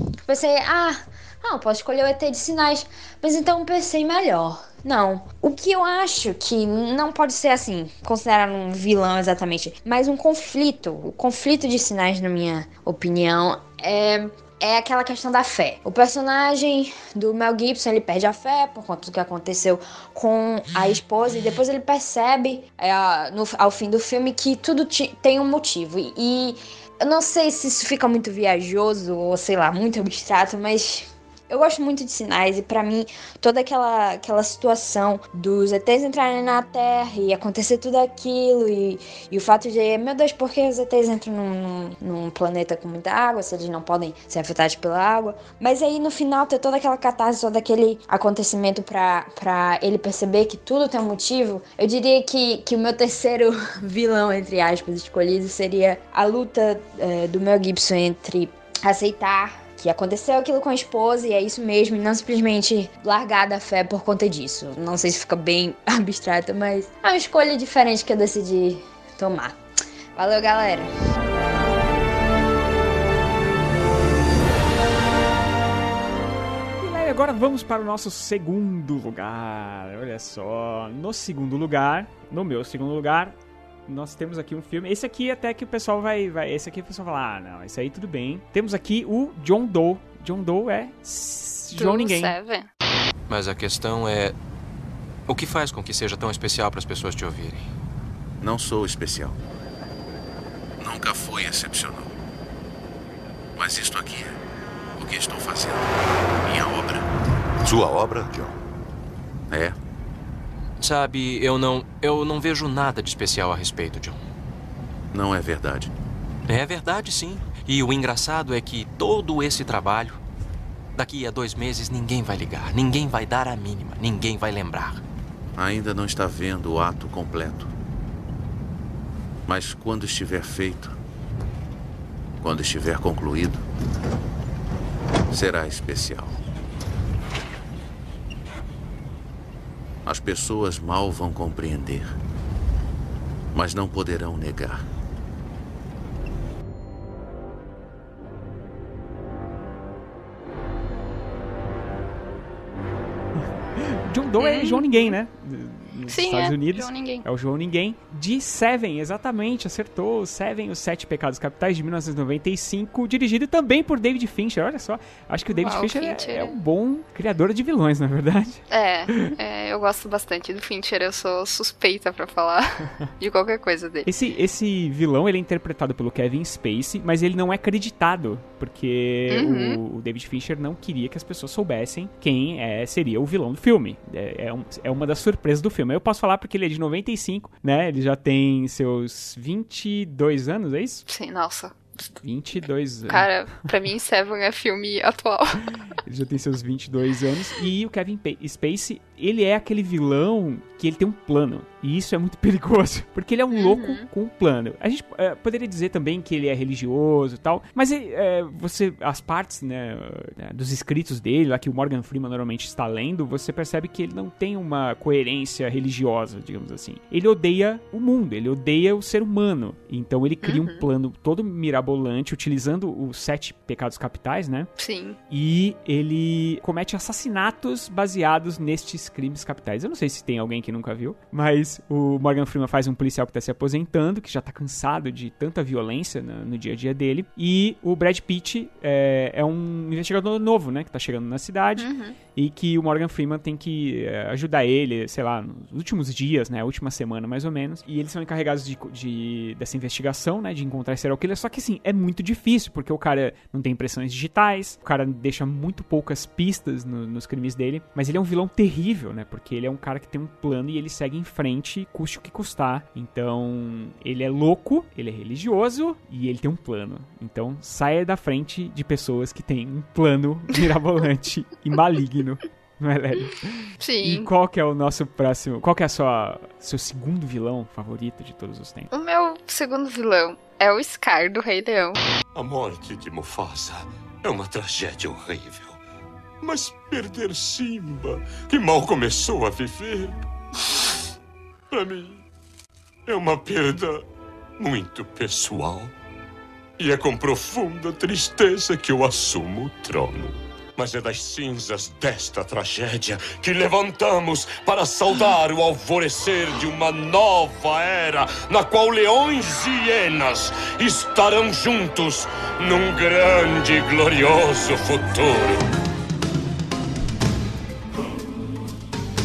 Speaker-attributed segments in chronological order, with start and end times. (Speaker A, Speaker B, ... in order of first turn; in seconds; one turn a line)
Speaker A: 0.3-69.6
Speaker A: 70.2-70.9
Speaker B: 76.8-83.3
Speaker B: 83.9-92.4
Speaker C: 91.7-92.7
Speaker D: 93.3-94.3
Speaker D: 95.3-97.7
Speaker E: 98.4-99.4
Speaker E: 100.8-102.2
Speaker E: 103.6-104.3
Speaker E: 105.0-105.9
Speaker E: 106.4-107.0
Speaker E: 107.7-108.5
Speaker E: 109.5-109.8
Speaker D: 110.8-114.2
Speaker E: 115.1-115.9
Speaker D: 116.5-120.2
Speaker D: 121.0-125.0
Speaker E: 125.6-127.7
Speaker E: 129.5-130.9
Speaker E: 132.4-133.6
Speaker E: 135.3-136.4
Speaker E: 140.1-142.1
Speaker E: 143.5-144.8
Speaker B: 153.8-169.3
Speaker C: 154.4-155.2
Speaker C: 156.1-157.3
Speaker C: 165.5-166.6
Speaker C: 168.7-174.1
Speaker B: 174.1-191.0
Speaker C: 179.3-179.8
Speaker C: 191.1-191.8
Speaker B: 192.2-193.3
Speaker C: 193.1-195.7
Speaker B: 196.1-224.7
Speaker C: 203.5-204.1
Speaker C: 220.4-220.9
Speaker C: 224.8-225.2
Speaker B: 225.3-278.9
Speaker C: 241.8-242.2
Speaker C: 273.8-274.3
Speaker C: 278.9-282.0
Speaker F: 282.4-285.8
Speaker F: 286.4-290.1
Speaker F: 291.7-292.2
Speaker F: 293.1-294.0
Speaker F: 294.6-295.9
Speaker F: 296.8-315.6